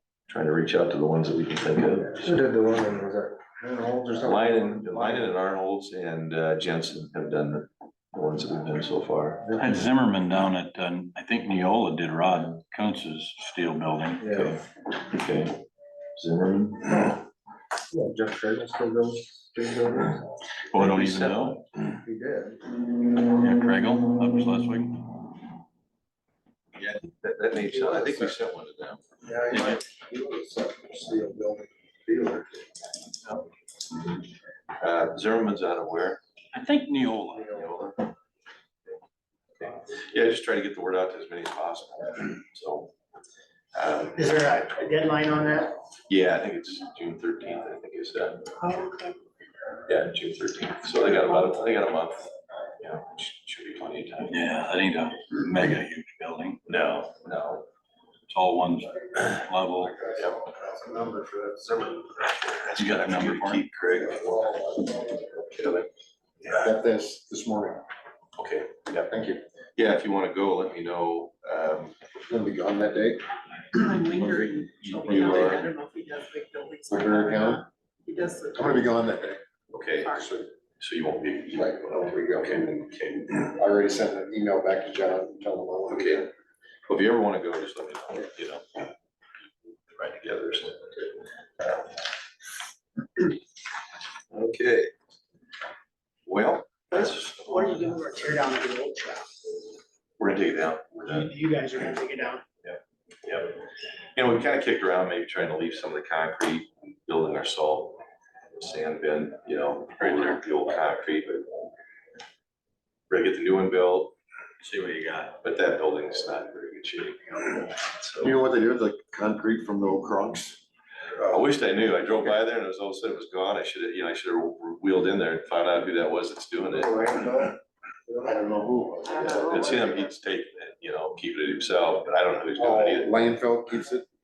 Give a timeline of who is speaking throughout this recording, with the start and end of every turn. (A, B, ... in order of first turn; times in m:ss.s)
0:00.3-0:02.4 A
0:02.2-0:05.3 B
0:04.2-0:09.6 A
0:09.6-0:14.2 C
0:14.2-0:14.5 B
0:14.3-0:15.6 A
0:16.2-0:17.2 A
0:17.9-0:20.2 B
0:20.7-0:21.6 C
0:20.7-0:22.0 A
0:22.0-0:22.6 B
0:23.3-0:25.2 C
0:26.7-0:29.1 A
0:27.7-0:28.3 B
0:29.2-0:32.5 B
0:29.5-0:29.8 C
0:34.8-0:36.2 A
0:36.5-0:37.5 C
0:37.5-0:38.1 A
0:39.6-0:42.9 A
0:43.7-0:45.2 A
0:44.2-0:45.7 D
0:46.1-0:48.5 A
0:48.7-0:49.0 E
0:49.9-0:54.5 A
0:54.3-0:56.6 C
0:56.6-0:57.6 A
0:58.3-1:00.0 C
1:00.1-1:02.0 B
1:02.2-1:05.9 A
1:02.8-1:03.6 C
1:06.5-1:07.8 B
1:08.4-1:09.1 A
1:09.1-1:09.4 B
1:09.8-1:12.0 A
1:12.3-1:13.2 B
1:14.0-1:15.7 C
1:14.0-1:14.5 E
1:14.8-1:15.7 A
1:15.9-1:17.2 E
1:16.9-1:17.6 B
1:18.5-1:19.4 B
1:19.7-1:23.5 A
1:20.0-1:20.5 B
1:21.5-1:26.2 B
1:25.9-1:26.3 A
1:26.9-1:28.8 A
1:29.9-1:31.7 A
1:34.3-1:34.9 A
1:36.2-1:37.7 A
1:36.9-1:39.4 D
1:40.2-1:41.9 A
1:41.0-1:42.4 D
1:42.6-1:43.6 A
1:44.2-1:48.0 A
1:48.6-1:51.7 A
1:50.0-1:50.6 C
1:53.1-1:54.1 A
1:54.6-1:55.3 C
1:55.4-1:58.4 A
1:58.2-2:00.6 B
2:01.2-2:07.1 A
2:06.7-2:07.5 B
2:08.1-2:09.8 B
2:09.1-2:13.2 A
2:12.6-2:14.0 B